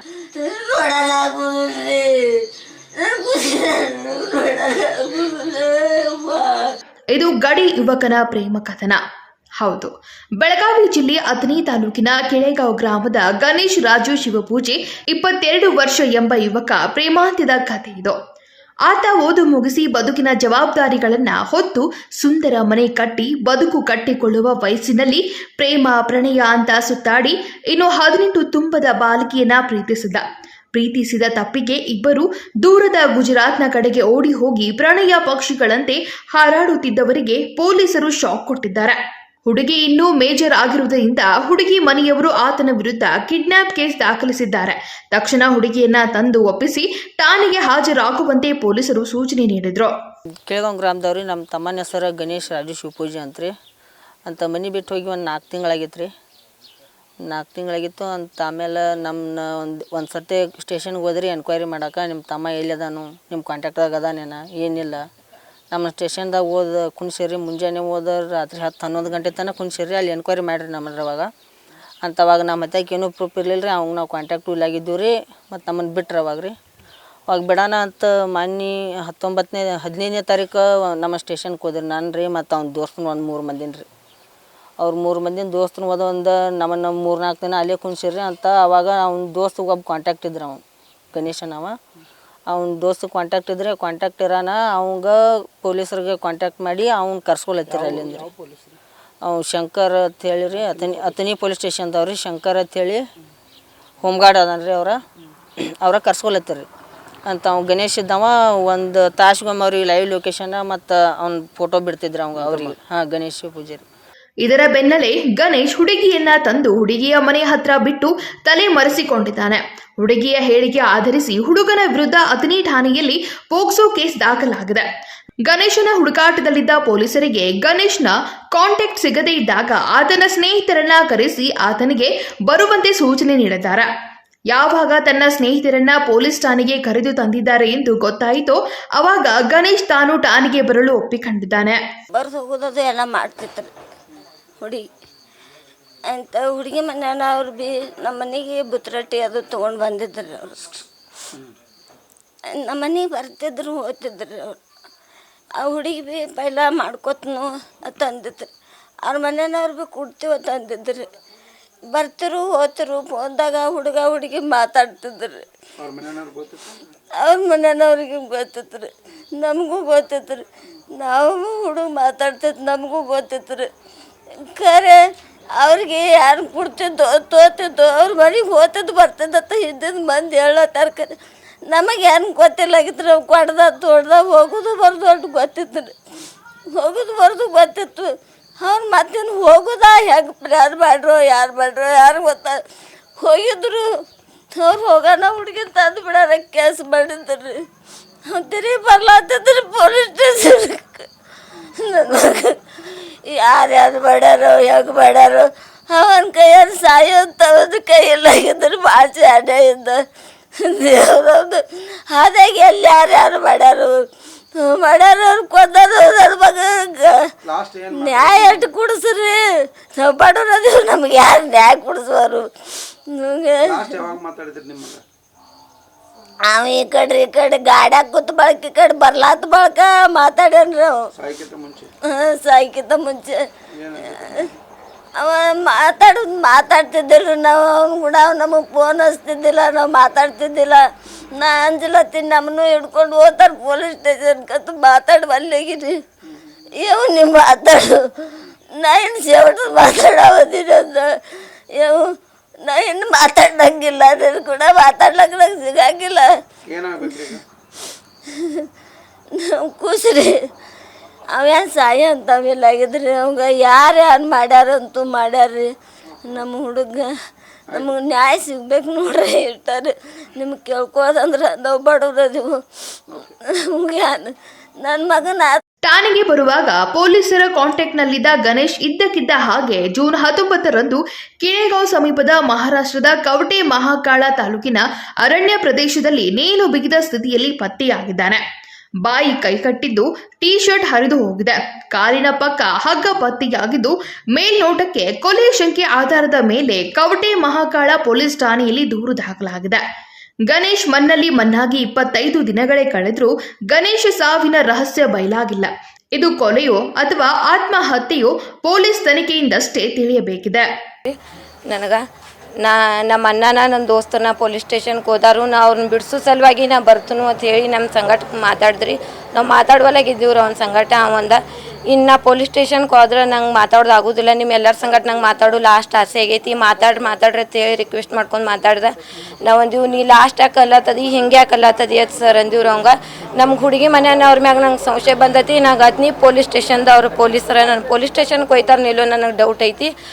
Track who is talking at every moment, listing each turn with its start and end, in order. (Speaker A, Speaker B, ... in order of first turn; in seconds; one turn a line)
Speaker A: 0.3-6.8
Speaker B: 7.1-9.0
Speaker B: 9.6-18.2
Speaker B: 18.9-49.9
Speaker C: 50.5-53.5
Speaker C: 54.3-56.1
Speaker C: 57.3-65.0
Speaker C: 65.7-71.3
Speaker C: 72.0-76.5
Speaker C: 77.3-83.9
Speaker C: 84.8-91.8
Speaker C: 92.5-98.3
Speaker D: 97.8-98.8
Speaker C: 99.2-103.0
Speaker C: 104.0-105.0
Speaker C: 105.6-106.7
Speaker C: 107.3-113.8
Speaker D: 112.4-112.7
Speaker B: 114.4-124.8
Speaker B: 125.5-133.9
Speaker B: 134.5-141.8
Speaker A: 142.1-143.7
Speaker A: 144.6-144.9
Speaker A: 146.1-150.8
Speaker A: 152.5-154.6
Speaker A: 155.6-158.5
Speaker A: 159.1-161.1
Speaker A: 161.9-165.5
Speaker D: 165.8-166.9
Speaker A: 167.2-173.7
Speaker A: 174.4-175.0
Speaker A: 175.6-181.2
Speaker A: 181.7-186.0
Speaker A: 186.7-192.6
Speaker A: 193.2-193.9
Speaker A: 194.5-197.7
Speaker A: 198.3-210.0
Speaker A: 210.6-214.0
Speaker A: 214.6-217.3
Speaker D: 217.4-218.7
Speaker A: 217.9-219.4
Speaker A: 219.9-224.0
Speaker D: 223.6-225.0
Speaker A: 226.5-231.1
Speaker D: 231.2-231.9
Speaker A: 232.1-233.5
Speaker D: 233.7-234.5
Speaker A: 234.1-234.5
Speaker A: 235.2-246.0
Speaker A: 246.8-256.3
Speaker D: 256.7-257.4
Speaker A: 257.1-257.4
Speaker A: 258.3-258.7
Speaker A: 259.3-260.5
Speaker A: 261.3-267.1
Speaker A: 267.7-272.6
Speaker A: 273.1-275.6
Speaker B: 275.9-288.4
Speaker B: 289.0-299.8
Speaker B: 300.5-310.7
Speaker E: 311.7-312.0
Speaker E: 312.6-339.9